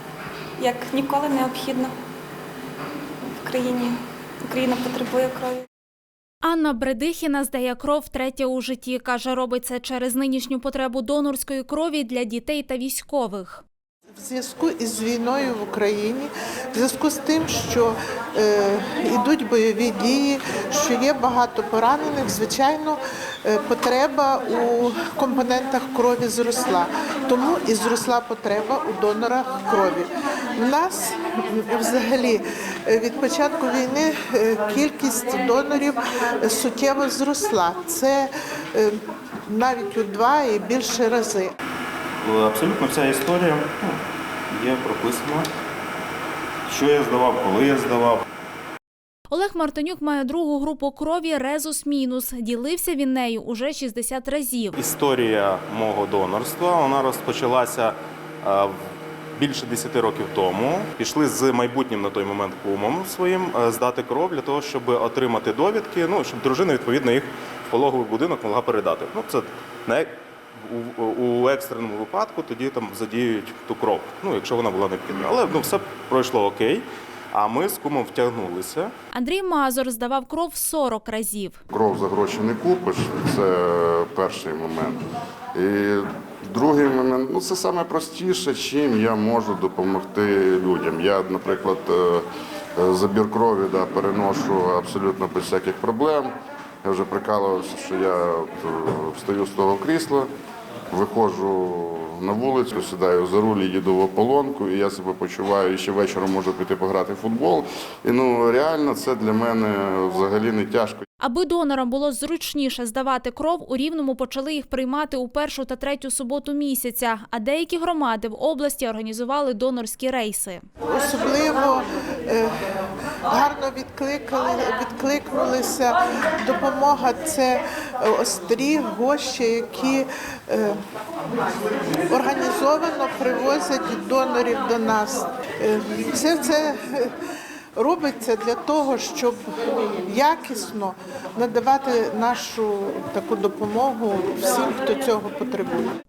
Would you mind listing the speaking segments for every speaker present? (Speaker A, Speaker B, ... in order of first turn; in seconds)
Speaker A: 0.6-1.9, 3.4-5.7
Speaker B: 6.4-13.6, 49.3-54.8, 79.1-81.6, 111.2-120.6
Speaker C: 14.2-39.0, 39.5-41.5, 120.9-122.5, 123.3-130.8, 132.1-137.1, 137.8-139.4, 140.0-145.9
Speaker D: 42.2-44.0, 44.5-45.5, 46.7-48.2, 54.8-58.8, 59.4-78.9
Speaker E: 81.7-85.0, 85.5-100.3, 100.9-111.0